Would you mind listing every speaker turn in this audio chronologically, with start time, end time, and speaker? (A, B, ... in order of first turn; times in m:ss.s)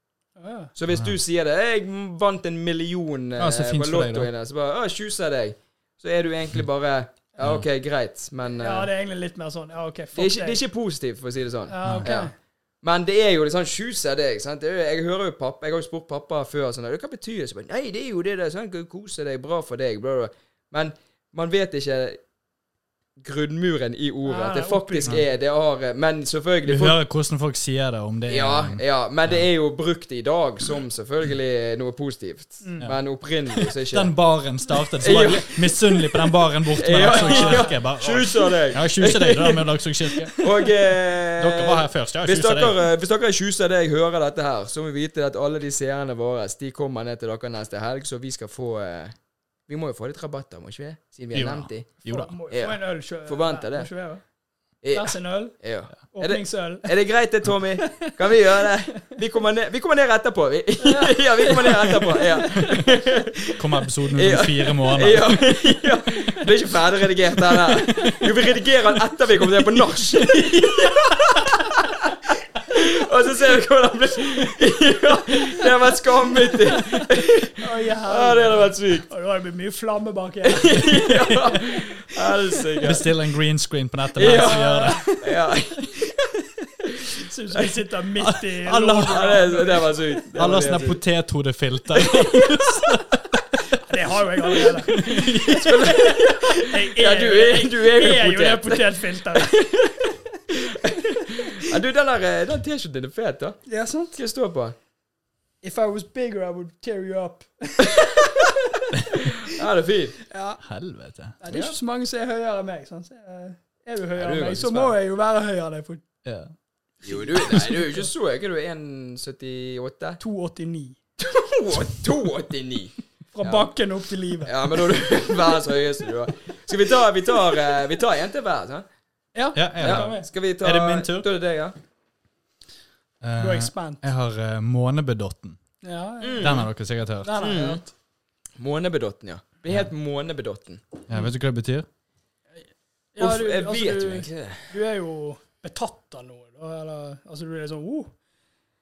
0:00.4-0:00.7 A
0:00.8-0:08.9 B
0:00.9-0:01.2 C
0:03.4-0:04.3 C
0:08.5-0:10.6 A
0:10.2-0:22.2 B
0:11.7-0:12.3 A
0:11.8-0:12.1 C
0:23.2-0:27.0 B
0:24.2-0:25.2 A
0:26.6-0:29.4 C
0:28.3-0:34.1 B
0:32.6-0:32.9 A
0:33.6-0:40.4 C
0:35.0-0:35.7 B
0:36.7-0:39.7 B
0:37.0-0:37.8 A
0:40.4-0:49.1 B
0:41.4-0:42.8 C
0:49.7-0:51.9 B
0:51.3-0:52.3 C
0:52.0-0:54.2 A
0:52.5-0:53.9 B
0:54.8-1:03.6 B
0:54.9-0:55.6 A
0:56.1-0:57.0 A
0:57.8-0:59.0 A
1:00.8-1:02.9 A
1:03.6-1:05.4 C
1:04.1-1:19.1 B
1:08.0-1:08.3 A
1:16.6-1:21.8 A
1:20.4-1:23.1 B
1:22.8-1:25.0 C
1:24.2-1:26.2 B
1:24.2-1:25.3 A
1:27.1-1:30.1 A
1:28.2-1:29.2 C
1:29.0-1:31.0 B
1:30.3-1:33.8 C
1:33.8-1:39.8 A
1:34.5-1:35.9 C
1:35.2-1:39.9 B
1:40.5-1:43.6 B
1:43.7-1:44.2 A
1:44.2-1:44.8 B
1:45.6-1:49.5 A
1:47.8-1:48.4 B
1:49.2-1:50.2 B
1:50.3-1:50.6 A
1:50.6-1:51.4 C
1:51.4-1:56.0 A
1:51.5-1:51.7 B
1:54.2-1:55.0 B
1:56.2-1:56.5 C
1:57.0-2:00.2 B
1:57.5-1:57.8 C
2:00.2-2:01.0 A
2:01.2-2:03.7 B
2:03.3-2:04.6 A
2:04.4-2:08.8 B
2:09.3-2:10.3 A
2:09.5-2:11.3 C
2:09.8-2:11.8 B
2:13.2-2:15.6 C
2:13.4-2:14.0 A
2:15.8-2:16.7 A
2:16.2-2:16.7 B
2:16.4-2:17.5 C
2:17.2-2:17.9 A
2:17.4-2:17.8 B
2:18.6-2:20.8 B
2:21.1-2:21.9 C
2:23.1-2:28.1 A
2:23.2-2:24.7 B